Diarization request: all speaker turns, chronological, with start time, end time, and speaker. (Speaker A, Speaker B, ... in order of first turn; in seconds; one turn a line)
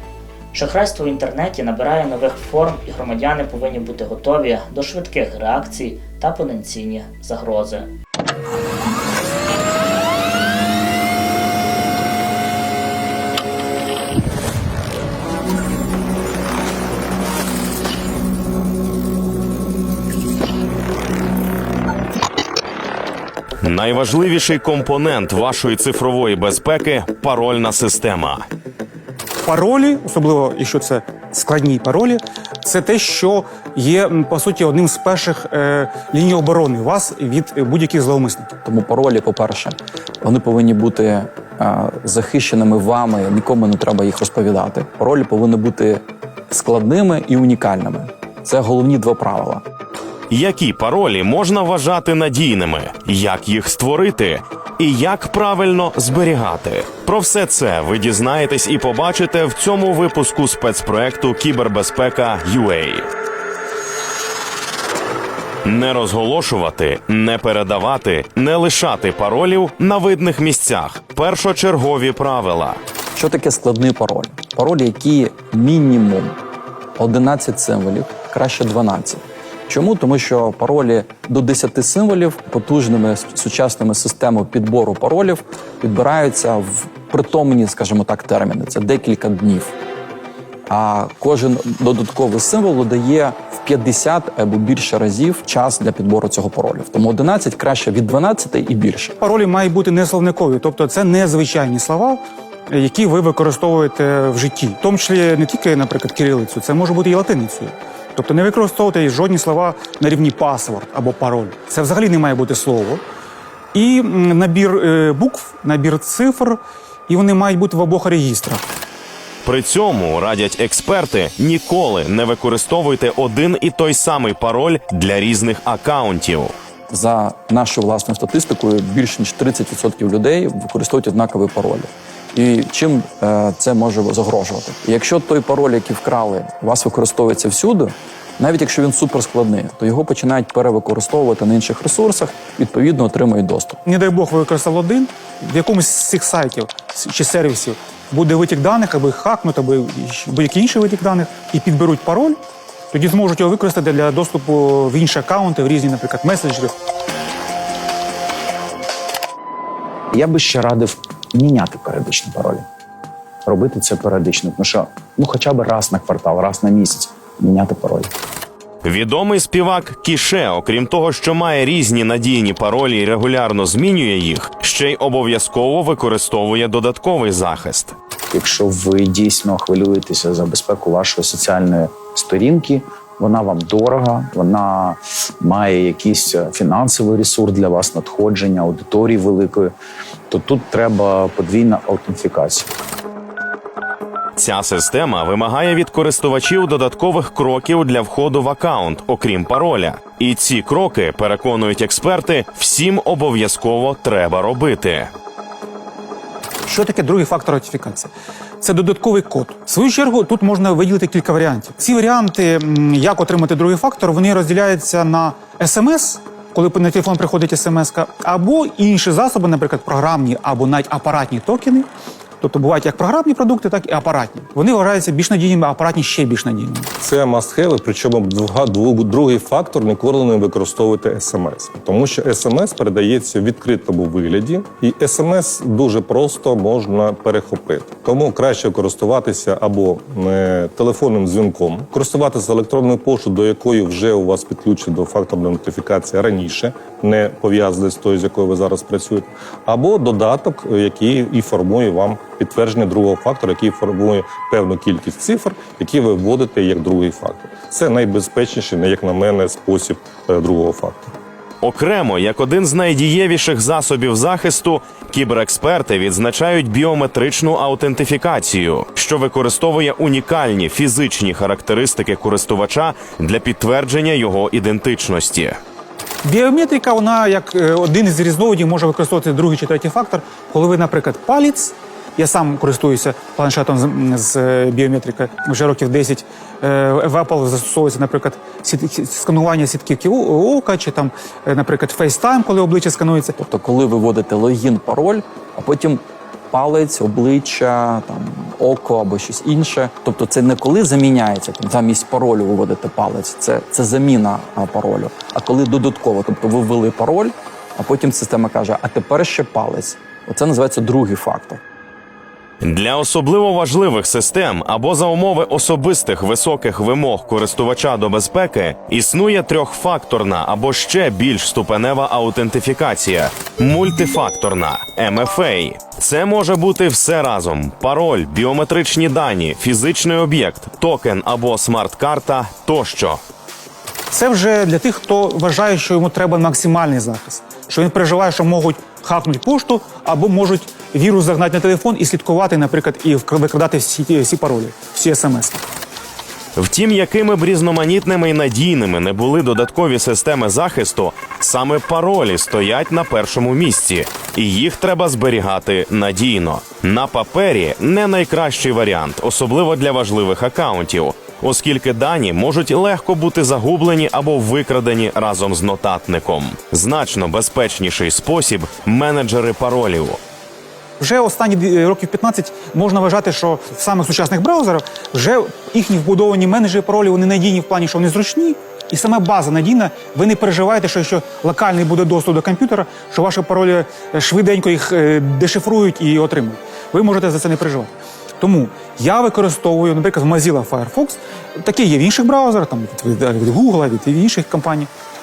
Speaker A: 0.5-7.9
Speaker B: 23.6-28.4
Speaker C: 29.4-38.5
Speaker D: 38.6-49.6
Speaker B: 50.3-63.0
Speaker B: 65.6-72.8
Speaker D: 73.1-76.3
Speaker D: 77.0-89.7
Speaker D: 90.7-99.2
Speaker C: 99.2-113.0
Speaker C: 113.7-118.6
Speaker B: 119.4-126.5
Speaker D: 126.9-143.8
Speaker C: 143.8-152.4
Speaker C: 152.9-156.7
Speaker E: 160.1-162.7
Speaker E: 163.4-168.1
Speaker B: 168.8-177.9
Speaker E: 178.3-189.7
Speaker E: 190.3-192.7
Speaker B: 194.4-205.1
Speaker C: 206.7-221.9
Speaker C: 222.4-226.9
Speaker F: 227.0-261.1
Speaker B: 261.6-275.6
Speaker C: 276.2-293.4
Speaker D: 293.4-311.6
Speaker B: 312.6-333.2
Speaker C: 334.1-345.6
Speaker B: 346.6-370.2
Speaker C: 371.0-394.9